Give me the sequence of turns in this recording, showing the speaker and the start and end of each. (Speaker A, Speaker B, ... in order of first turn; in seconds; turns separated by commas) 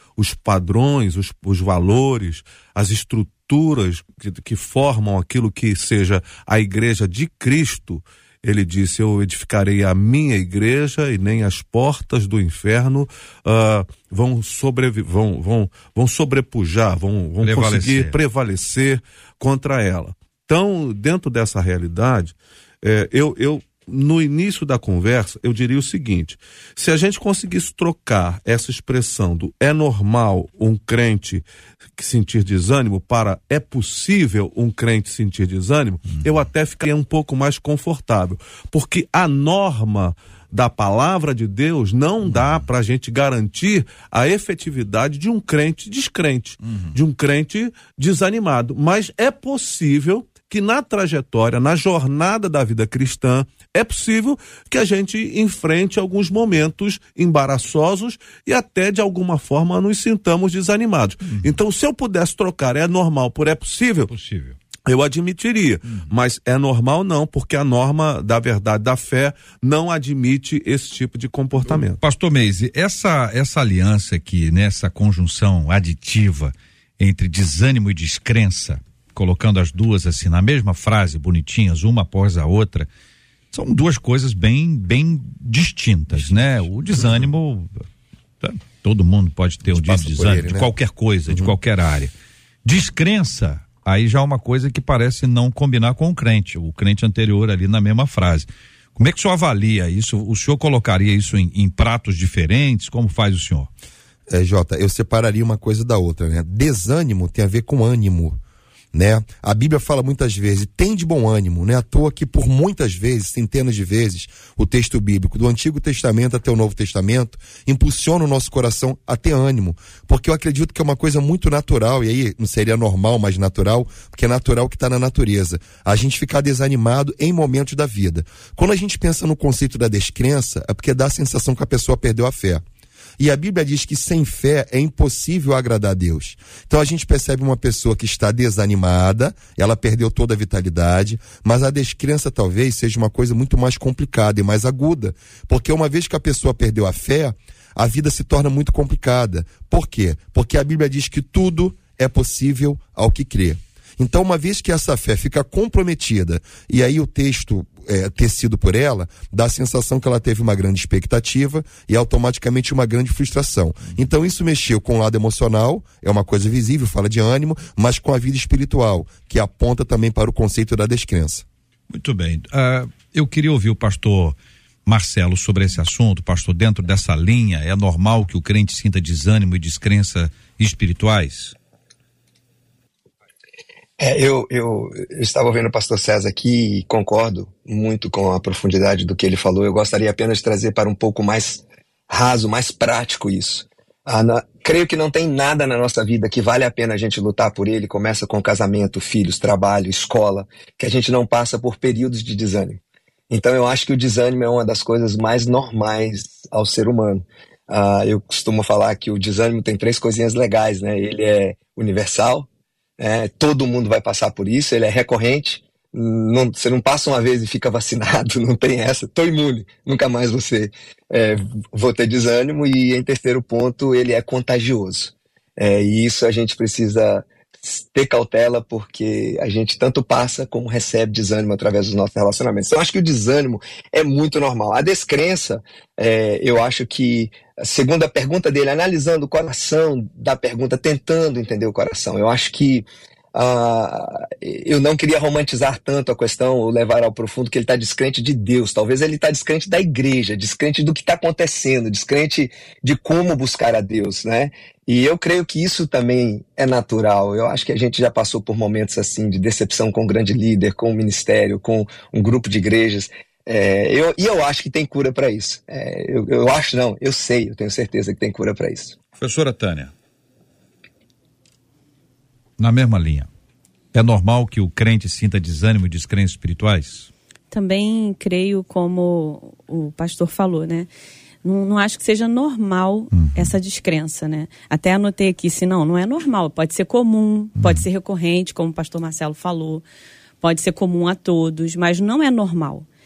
Speaker A: 0.2-31.4, Speaker B: 17.4-18.2, Speaker A: 31.9-64.1, Speaker B: 64.1-64.6, Speaker A: 64.8-72.0, Speaker B: 72.0-82.9, Speaker B: 83.5-87.8, Speaker C: 86.2-86.5, Speaker B: 88.4-92.1, Speaker C: 89.7-90.7, Speaker C: 91.3-91.5, Speaker B: 92.6-103.7, Speaker C: 104.3-108.4, Speaker C: 108.9-132.6, Speaker C: 133.2-171.4, Speaker B: 171.9-181.5, Speaker D: 184.0-212.5, Speaker D: 213.0-268.9, Speaker B: 269.2-269.9, Speaker B: 272.6-273.3, Speaker B: 273.9-277.1, Speaker E: 277.5-280.9, Speaker E: 281.4-289.8, Speaker B: 283.1-283.5, Speaker B: 287.6-287.8, Speaker E: 290.4-292.9